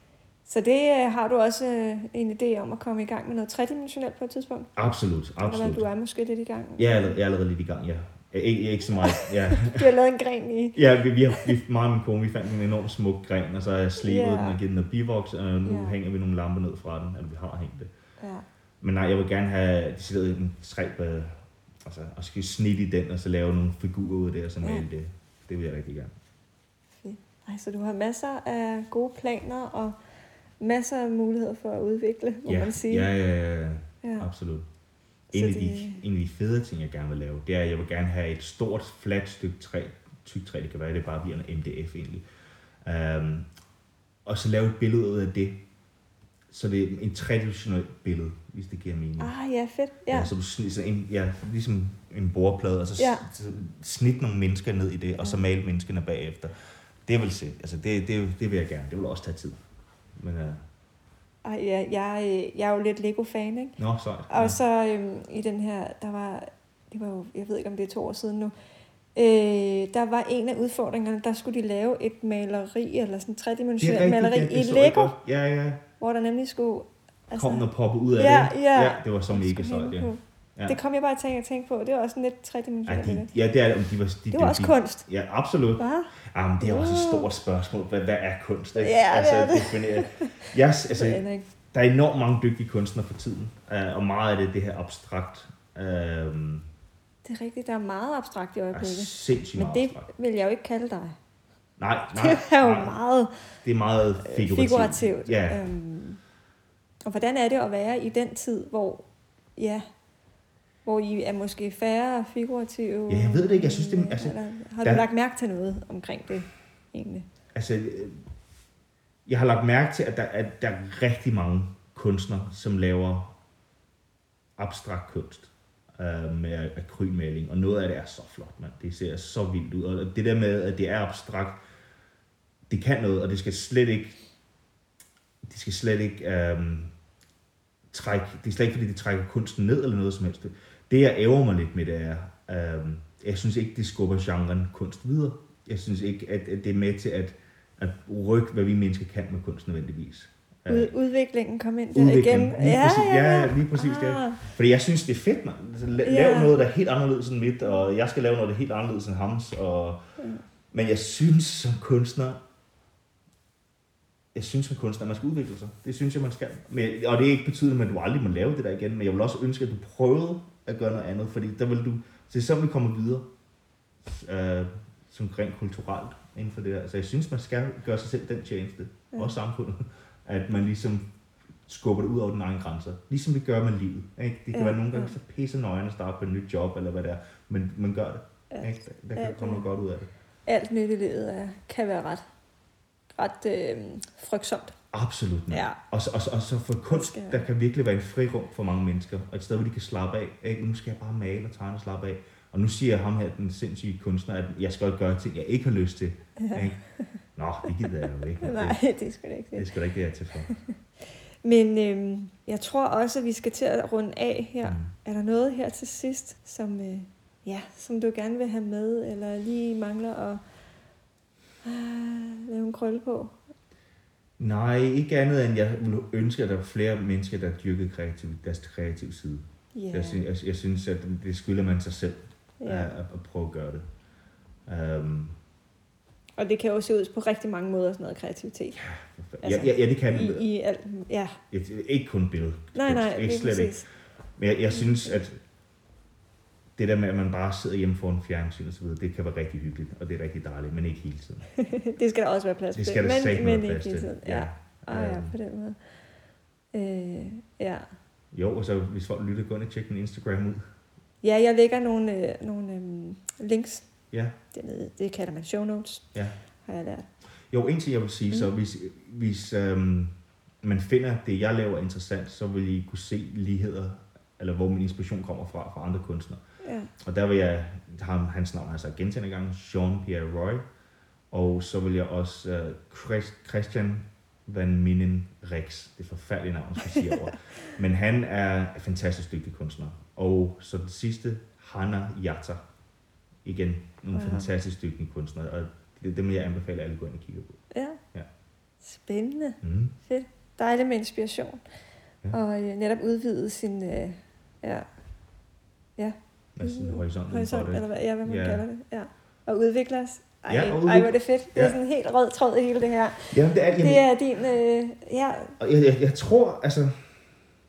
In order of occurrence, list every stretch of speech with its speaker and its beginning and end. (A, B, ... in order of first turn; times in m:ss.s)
0:00.4-0:04.7 A
0:04.8-0:05.9 B
0:05.4-0:07.2 A
0:06.8-0:09.9 B
0:09.0-0:11.5 A
0:10.7-0:17.9 B
0:14.0-0:14.6 A
0:15.6-0:16.0 A
0:18.2-0:18.4 A
0:18.8-0:26.1 B
0:27.0-0:30.0 A
0:30.6-0:33.1 A
0:32.4-0:34.7 B
0:34.0-0:34.3 A
0:35.3-0:36.0 A
0:35.3-0:42.2 B
0:42.8-0:43.5 B
0:44.3-0:45.6 B
0:46.5-0:49.3 B
0:49.2-0:50.3 A
0:50.1-0:56.5 B
0:53.0-0:53.2 A
0:57.0-0:59.6 B
1:00.2-1:00.6 B
1:01.4-1:03.8 A
1:03.8-1:04.6 B
1:04.3-1:08.5 A
1:09.1-1:15.1 A
1:13.8-1:15.8 B
1:16.0-1:23.3 A
1:17.3-1:20.8 B
1:22.9-1:36.6 B
1:24.3-1:25.0 A
1:25.8-1:27.3 A
1:28.8-1:30.4 A
1:30.9-1:31.5 A
1:37.2-1:41.2 A
1:38.7-1:40.1 B
1:41.8-1:43.0 B
1:42.1-1:43.3 A
1:43.6-1:45.6 B
1:44.2-1:46.2 A
1:47.0-1:49.0 A
1:49.6-1:49.8 A
1:50.8-1:57.3 A
1:53.1-1:55.0 B
1:57.6-1:58.2 B
1:59.3-2:03.3 B
2:04.6-2:11.6 B
2:12.7-2:14.2 B
2:15.4-2:16.9 B
2:17.9-2:30.9 B
2:30.7-2:34.4 A
2:31.9-2:40.0 B
2:36.0-2:36.7 A
2:40.2-2:40.4 A
2:40.7-2:42.4 B
2:44.3-2:53.3 B
2:54.0-3:01.0 B
3:01.7-3:10.1 B
3:04.5-3:05.1 A
3:08.5-3:09.7 A
3:10.4-3:12.2 A
3:13.1-3:14.8 A
3:14.9-3:26.8 B
3:15.5-3:15.8 A
3:16.9-3:17.4 A
3:26.4-3:27.1 A
3:27.4-3:28.8 B
3:27.7-3:29.7 A
3:29.6-3:30.5 B
3:30.5-3:40.4 A
3:34.6-3:34.9 B
3:41.6-3:43.3 A
3:44.4-3:53.8 B
3:49.7-3:50.2 A
3:52.6-3:52.9 A
3:54.7-3:55.4 B
3:56.4-3:58.8 A
3:58.7-4:00.4 B
3:59.4-4:01.4 A
4:01.5-4:03.7 B
4:02.7-4:03.9 A
4:04.4-4:05.4 B
4:04.7-4:05.2 A
4:06.8-4:11.5 B
4:11.6-4:15.8 A
4:12.7-4:15.4 B
4:16.7-4:17.9 A
4:18.3-4:20.6 B
4:21.2-4:23.9 A
4:24.1-4:24.4 B
4:24.5-4:26.0 A
4:26.7-4:27.1 A
4:27.5-4:36.4 B
4:36.6-4:36.9 A
4:37.0-4:40.6 B
4:41.3-4:52.6 B
4:46.9-4:47.3 A
4:53.4-4:57.6 B
4:54.1-4:54.5 A
4:57.7-4:58.0 A
4:58.8-5:01.6 A
4:59.6-5:00.0 B
5:02.3-5:04.9 A
5:06.0-5:15.6 A
5:06.6-5:08.6 B
5:10.5-5:11.8 B
5:13.3-5:14.0 B
5:15.6-5:17.1 B